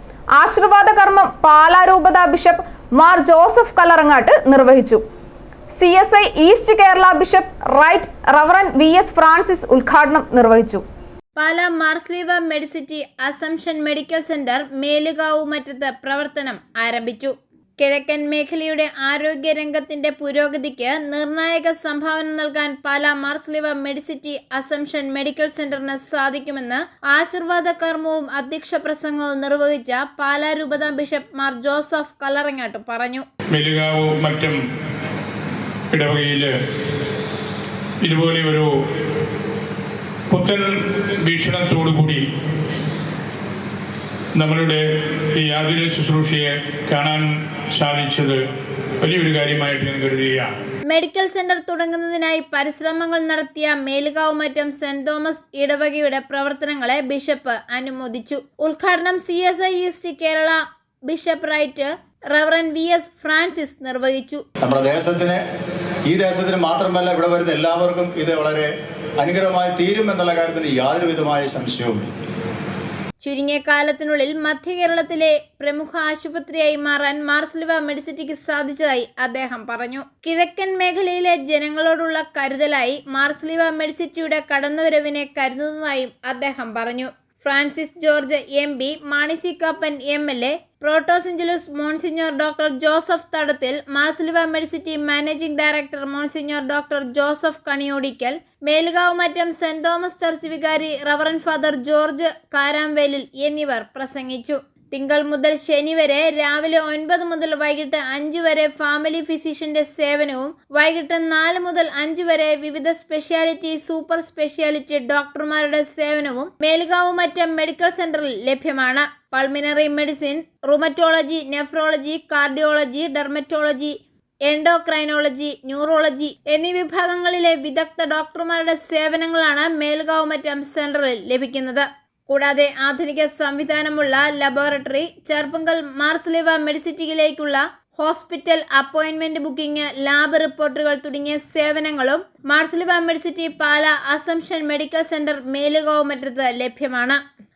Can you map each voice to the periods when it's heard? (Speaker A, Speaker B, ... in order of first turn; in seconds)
Speaker A: 0.4-5.0, 5.7-10.8
Speaker B: 11.4-33.2, 50.9-64.4, 73.2-123.9, 124.5-147.2
Speaker C: 33.5-34.6, 35.9-36.5, 38.0-38.7, 40.3-42.3, 44.4-48.4, 49.0-50.5
Speaker D: 64.6-65.4, 66.1-72.1